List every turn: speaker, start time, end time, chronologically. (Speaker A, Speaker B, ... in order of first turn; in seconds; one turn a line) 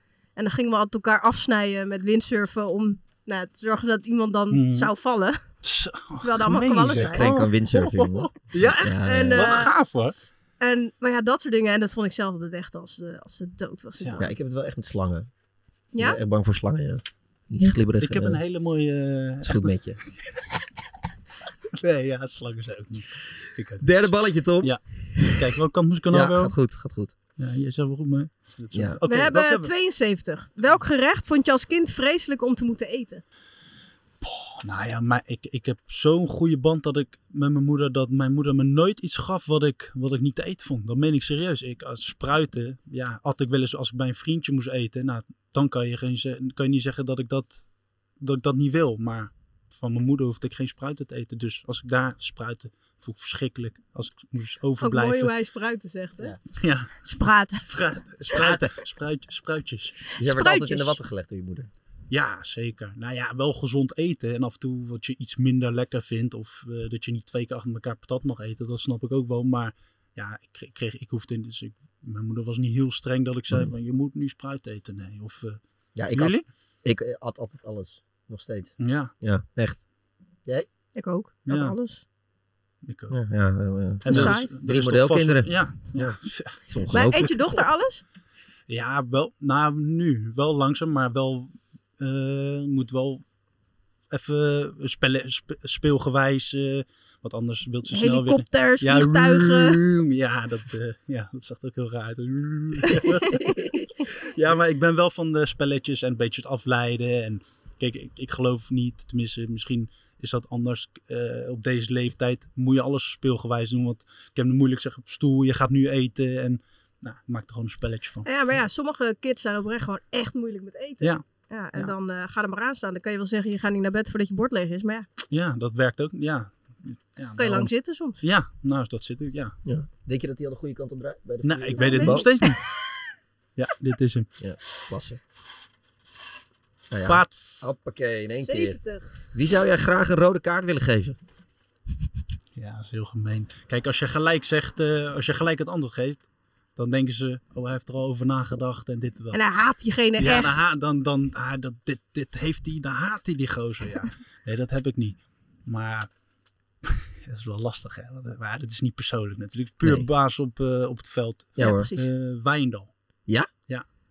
Speaker A: 0.3-5.4
Speaker B: 4.5-4.9
Speaker B: 5.6-10.1
Speaker A: 6.2-7.2
Speaker C: 7.0-9.6
Speaker A: 9.0-9.7
Speaker A: 10.6-14.3
Speaker C: 14.2-15.3
Speaker A: 15.9-16.2
Speaker C: 16.0-18.4
Speaker B: 18.0-19.7
Speaker C: 19.4-20.0
Speaker B: 21.8-24.0
Speaker C: 23.8-25.5
Speaker B: 24.6-26.5
Speaker C: 26.1-27.1
Speaker B: 27.4-29.7
Speaker C: 28.7-29.0
Speaker A: 29.1-33.2
Speaker B: 34.2-47.6
Speaker B: 48.2-55.3
Speaker A: 54.8-56.4
Speaker B: 56.6-57.0
Speaker A: 57.0-57.6
Speaker B: 57.6-60.0
Speaker C: 58.3-58.7
Speaker C: 60.1-61.7
Speaker A: 60.2-61.0
Speaker B: 62.1-75.6
Speaker C: 75.9-79.8
Speaker B: 76.1-76.4
Speaker B: 78.8-79.1
Speaker A: 81.0-82.0
Speaker B: 81.5-81.8
Speaker B: 82.8-83.2
Speaker C: 83.1-87.5
Speaker B: 84.0-87.5
Speaker A: 84.0-84.5
Speaker A: 86.9-88.0
Speaker B: 88.7-93.2
Speaker B: 94.1-118.6
Speaker A: 97.9-99.8
Speaker A: 103.0-103.6
Speaker A: 118.2-125.0
Speaker B: 125.3-129.6
Speaker A: 127.4-128.2
Speaker C: 129.6-132.3
Speaker B: 131.4-132.6
Speaker A: 131.8-132.5
Speaker B: 133.6-134.3
Speaker C: 134.4-135.2
Speaker C: 136.9-138.8
Speaker B: 137.0-137.7
Speaker A: 138.4-139.1
Speaker C: 139.3-141.2
Speaker B: 142.6-146.2
Speaker B: 146.8-149.4
Speaker A: 149.3-150.5
Speaker B: 150.2-156.1
Speaker B: 156.8-162.9
Speaker C: 159.8-160.1
Speaker C: 161.6-161.9
Speaker A: 161.6-162.1